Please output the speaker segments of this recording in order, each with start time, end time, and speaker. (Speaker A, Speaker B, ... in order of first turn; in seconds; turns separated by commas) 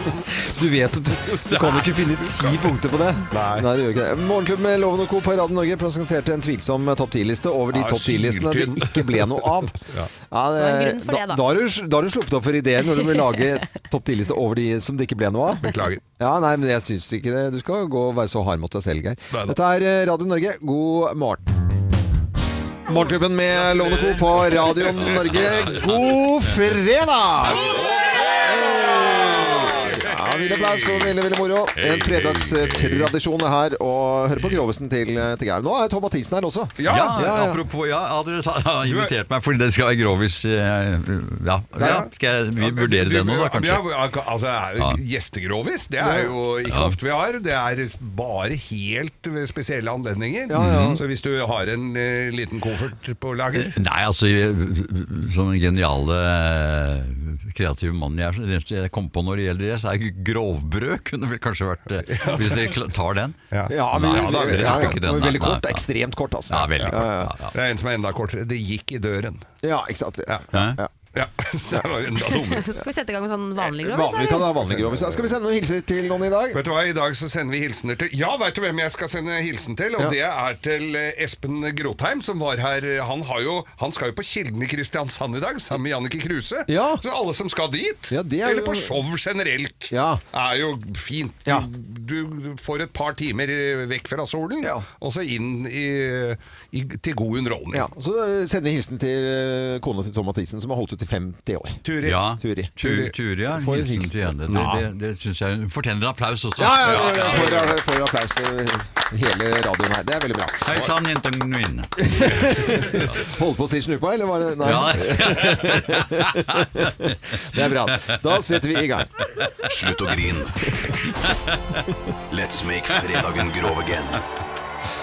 Speaker A: 0.3-21.4, Speaker B: 1.4-2.6, Speaker B: 3.3-3.7, Speaker B: 7.7-10.1, Speaker C: 10.6-11.4, Speaker B: 15.6-16.0, Speaker B: 19.3-19.6, Speaker A: 22.9-37.6, Speaker D: 23.6-24.5, Speaker D: 25.0-26.6, Speaker B: 25.4-25.9, Speaker B: 27.4-31.2, Speaker B: 31.8-32.4, Speaker D: 31.9-33.1, Speaker B: 36.8-37.2, Speaker D: 36.8-43.9, Speaker B: 38.8-39.1, Speaker A: 41.8-42.0, Speaker B: 41.8-53.8, Speaker A: 46.0-46.4, Speaker D: 46.6-47.0, Speaker A: 50.5-51.0, Speaker D: 50.5-51.0, Speaker D: 53.5-65.9, Speaker B: 62.1-62.7, Speaker B: 63.5-65.0, Speaker A: 63.7-67.3, Speaker D: 66.5-67.5, Speaker B: 67.5-69.5, Speaker A: 69.6-70.9, Speaker D: 70.5-70.8, Speaker B: 71.1-72.7, Speaker C: 72.5-74.6, Speaker A: 73.6-76.6, Speaker B: 74.6-75.3, Speaker B: 76.5-97.9, Speaker A: 86.7-87.0, Speaker A: 88.1-89.0, Speaker A: 89.9-90.2, Speaker A: 94.6-94.9, Speaker A: 97.7-101.8, Speaker B: 101.8-102.2, Speaker D: 102.0-107.7, Speaker A: 102.4-102.8, Speaker B: 102.8-103.1, Speaker A: 103.5-104.8, Speaker B: 104.5-104.8, Speaker A: 106.6-110.8, Speaker B: 106.8-107.8, Speaker D: 110.7-113.2, Speaker A: 112.0-119.1, Speaker D: 114.6-118.8, Speaker D: 119.4-119.7, Speaker E: 119.7-120.6, Speaker A: 120.7-121.0, Speaker D: 121.0-121.8, Speaker E: 122.3-124.2